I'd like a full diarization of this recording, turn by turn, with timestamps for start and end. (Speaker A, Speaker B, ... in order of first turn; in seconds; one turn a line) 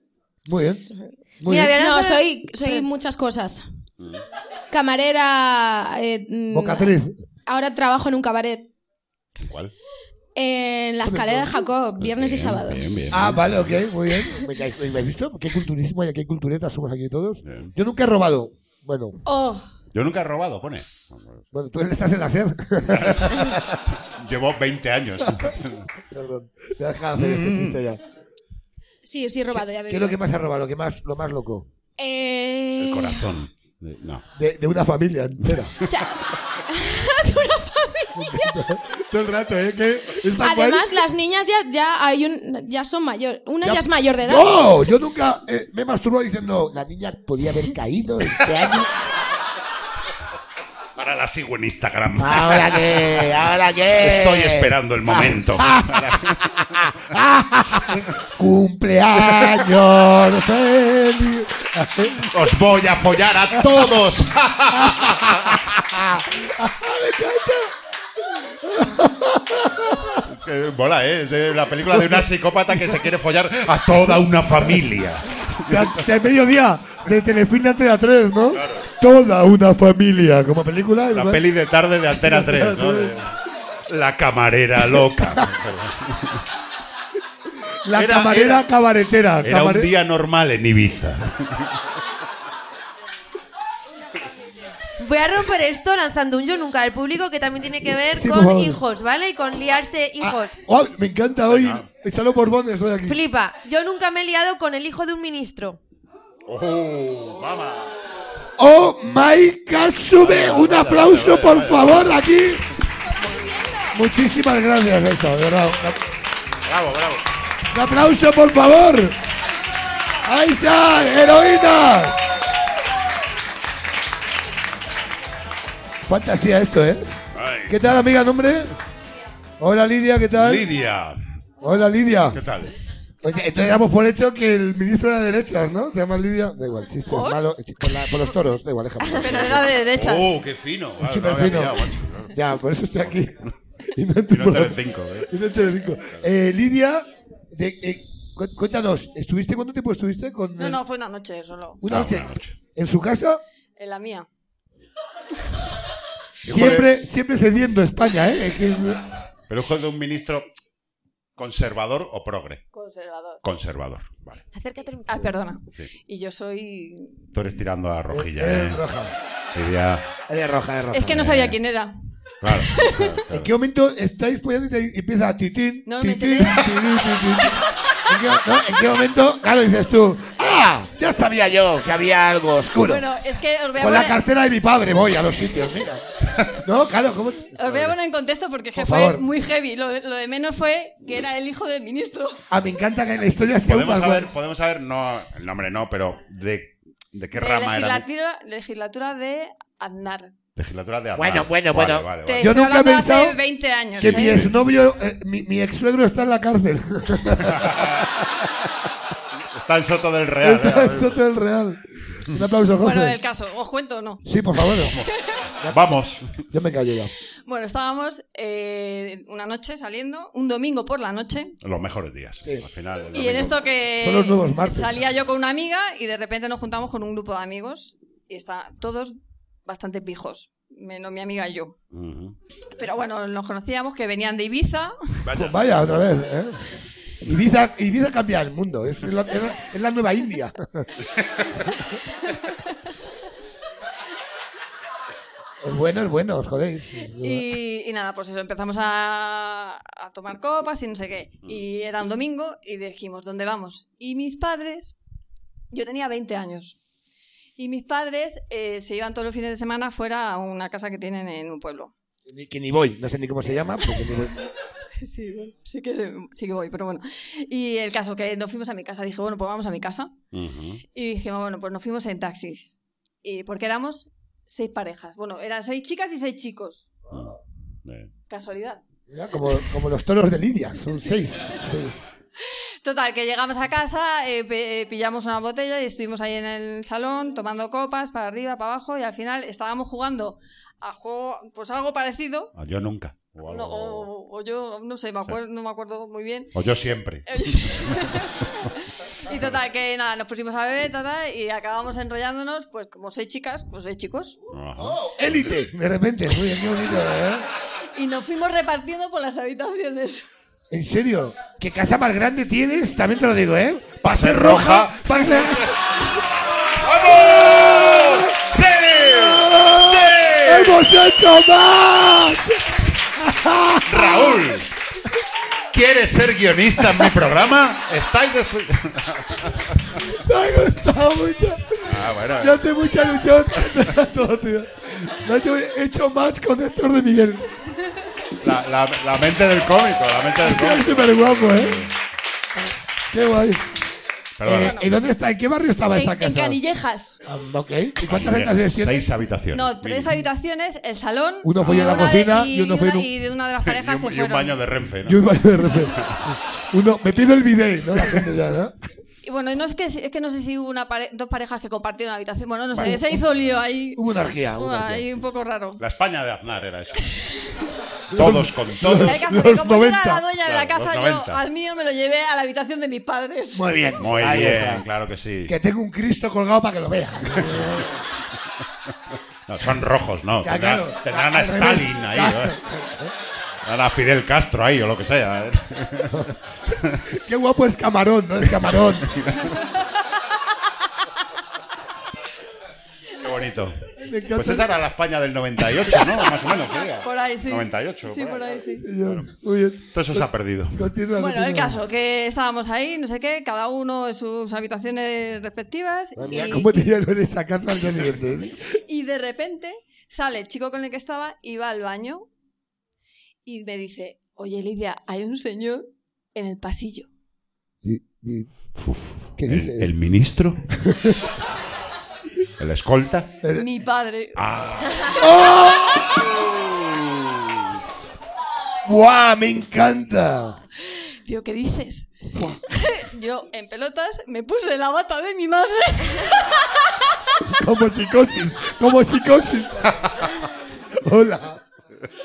Speaker A: 0.5-0.9
Speaker B: 0.6-3.6
Speaker A: 1.4-1.8
Speaker C: 1.4-2.9
Speaker D: 4.0-4.2
Speaker B: 4.7-8.7
Speaker A: 6.5-7.2
Speaker D: 9.4-9.7
Speaker B: 10.3-13.1
Speaker A: 11.0-11.7
Speaker D: 12.0-13.8
Speaker A: 13.1-19.2
Speaker D: 17.4-17.7
Speaker B: 19.2-19.6
Speaker D: 19.9-21.4
Speaker A: 21.5-23.8
Speaker D: 22.9-25.9
Speaker A: 26.1-28.0
Speaker D: 27.1-27.8
Speaker B: 29.0-30.2
Speaker A: 29.5-31.7
Speaker B: 32.0-33.4
Speaker D: 32.8-34.2
Speaker A: 34.3-35.7
Speaker B: 35.8-38.6
Speaker A: 38.1-41.0
Speaker B: 40.4-44.7
Speaker A: 43.6-48.9
Speaker D: 51.0-57.1
Speaker A: 52.2-56.2
Speaker A: 56.8-62.3
Speaker D: 59.2-59.7
Speaker D: 62.2-65.6
Speaker A: 64.8-67.7
Speaker A: 68.6-70.2
Speaker D: 70.2-76.1
Speaker A: 71.9-72.2
Speaker A: 75.7-81.4
Speaker D: 78.5-78.9
Speaker D: 81.1-83.4
Speaker A: 82.1-83.1
Speaker D: 83.9-86.4
Speaker A: 85.0-85.5
Speaker A: 87.8-89.9
Speaker D: 87.9-88.7
Speaker D: 89.4-91.8
Speaker C: 95.0-100.6
Speaker A: 98.1-98.8
Speaker A: 100.2-103.2
Speaker D: 101.5-101.9
Speaker C: 103.0-105.8
Speaker D: 106.5-107.9
Speaker A: 108.6-112.6
Speaker D: 110.2-112.2
Speaker B: 113.1-114.0
Speaker A: 113.9-116.0
Speaker D: 116.6-117.2
Speaker A: 117.7-119.2
Speaker A: 120.2-122.2
Speaker A: 126.1-127.1
Speaker D: 127.3-127.8
Speaker A: 127.7-128.7
Speaker A: 129.6-130.7
Speaker D: 130.3-131.2
Speaker A: 131.6-132.4
Speaker D: 132.3-132.7
Speaker A: 133.2-139.7
Speaker E: 137.1-137.4
Speaker E: 139.2-140.4
Speaker D: 139.2-142.4
Speaker A: 141.0-143.4
Speaker D: 143.0-143.5
Speaker A: 143.9-150.8
Speaker D: 144.3-145.3
Speaker D: 145.9-146.3
Speaker E: 150.6-151.8
Speaker A: 151.8-153.4
Speaker D: 151.8-152.6
Speaker E: 153.8-154.3
Speaker D: 156.4-156.9
Speaker A: 156.4-159.0
Speaker D: 159.5-160.5
Speaker D: 161.4-162.6
Speaker E: 162.7-163.4
Speaker D: 163.4-164.4
Speaker C: 164.5-165.3
Speaker E: 165.1-167.3
Speaker D: 167.3-168.8
Speaker A: 168.1-169.1
Speaker D: 169.5-170.1
Speaker A: 170.3-171.4
Speaker E: 170.9-171.9
Speaker D: 171.1-171.6
Speaker D: 172.4-173.5
Speaker E: 172.5-173.2
Speaker A: 173.3-183.0
Speaker E: 175.8-177.1
Speaker E: 182.8-184.2
Speaker A: 183.8-187.5
Speaker E: 187.6-192.4
Speaker D: 187.6-187.9
Speaker A: 188.7-189.2
Speaker A: 192.5-194.3
Speaker D: 193.6-198.1
Speaker E: 197.3-200.3
Speaker D: 200.6-202.5
Speaker A: 201.2-203.4
Speaker E: 202.2-204.5
Speaker A: 204.0-208.0
Speaker D: 204.0-204.5
Speaker D: 207.4-208.1
Speaker D: 209.5-211.2
Speaker A: 210.4-213.2
Speaker E: 212.8-214.2
Speaker A: 214.2-214.9
Speaker D: 214.6-216.3
Speaker A: 216.5-217.1
Speaker E: 217.4-221.6
Speaker D: 221.6-223.7
Speaker E: 223.1-231.8
Speaker A: 224.0-225.0
Speaker D: 231.9-232.3
Speaker E: 232.7-234.9
Speaker D: 235.2-235.6
Speaker A: 235.3-236.6
Speaker A: 237.2-240.9
Speaker D: 241.2-241.6
Speaker A: 245.6-247.5
Speaker E: 247.2-254.9
Speaker E: 255.7-256.8
Speaker E: 257.6-261.9
Speaker A: 262.3-264.4
Speaker E: 265.0-270.1
Speaker D: 270.3-270.8
Speaker E: 270.9-276.9
Speaker D: 277.1-278.1
Speaker E: 278.3-278.8
Speaker A: 279.1-282.0
Speaker E: 282.8-292.5
Speaker D: 292.5-294.1
Speaker E: 293.4-296.5
Speaker D: 296.5-298.1
Speaker E: 297.2-304.4
Speaker D: 304.5-305.6
Speaker A: 304.8-307.4
Speaker E: 307.9-310.2
Speaker A: 310.7-316.0
Speaker D: 314.0-315.8
Speaker D: 316.8-320.9
Speaker A: 317.0-318.4
Speaker A: 319.0-322.6
Speaker A: 323.1-324.5
Speaker D: 323.9-324.7
Speaker D: 325.7-330.0
Speaker A: 330.1-337.5
Speaker D: 331.8-332.6
Speaker D: 338.4-341.9
Speaker A: 340.4-341.8
Speaker A: 343.1-343.6
Speaker D: 344.4-344.9
Speaker A: 344.4-346.6
Speaker E: 344.5-344.9
Speaker E: 345.9-347.1
Speaker A: 347.2-349.1
Speaker D: 348.0-350.2
Speaker E: 349.5-354.6
Speaker A: 351.4-353.1
Speaker D: 353.6-356.4
Speaker A: 355.0-358.7
Speaker E: 359.2-364.0
Speaker D: 362.7-363.6
Speaker A: 362.8-363.1
Speaker A: 363.9-365.1
Speaker E: 364.5-365.8
Speaker D: 365.8-367.1
Speaker A: 368.1-370.2
Speaker D: 368.1-369.3
Speaker E: 369.0-373.9
Speaker D: 370.4-371.4
Speaker A: 373.5-374.8
Speaker D: 374.0-375.5
Speaker A: 375.4-378.0
Speaker D: 377.4-377.8
Speaker D: 379.5-382.6
Speaker A: 380.4-383.1
Speaker D: 383.6-386.3
Speaker A: 387.1-389.1
Speaker D: 388.6-389.6
Speaker D: 393.2-399.3
Speaker A: 394.0-394.7
Speaker E: 397.0-398.9
Speaker A: 398.7-401.8
Speaker D: 399.9-400.9
Speaker E: 401.1-406.9
Speaker A: 406.1-408.6
Speaker E: 408.9-412.3
Speaker E: 413.4-417.1
Speaker A: 417.8-418.5
Speaker D: 418.8-420.6
Speaker A: 419.4-419.9
Speaker A: 420.9-421.2
Speaker D: 422.6-423.4
Speaker A: 423.4-423.7
Speaker E: 423.5-425.2
Speaker D: 424.4-425.2
Speaker A: 425.2-426.2
Speaker E: 425.9-426.1
Speaker D: 426.3-427.5
Speaker A: 428.8-430.6
Speaker E: 431.2-432.1
Speaker E: 432.7-437.1
Speaker A: 437.4-439.9
Speaker A: 441.0-441.6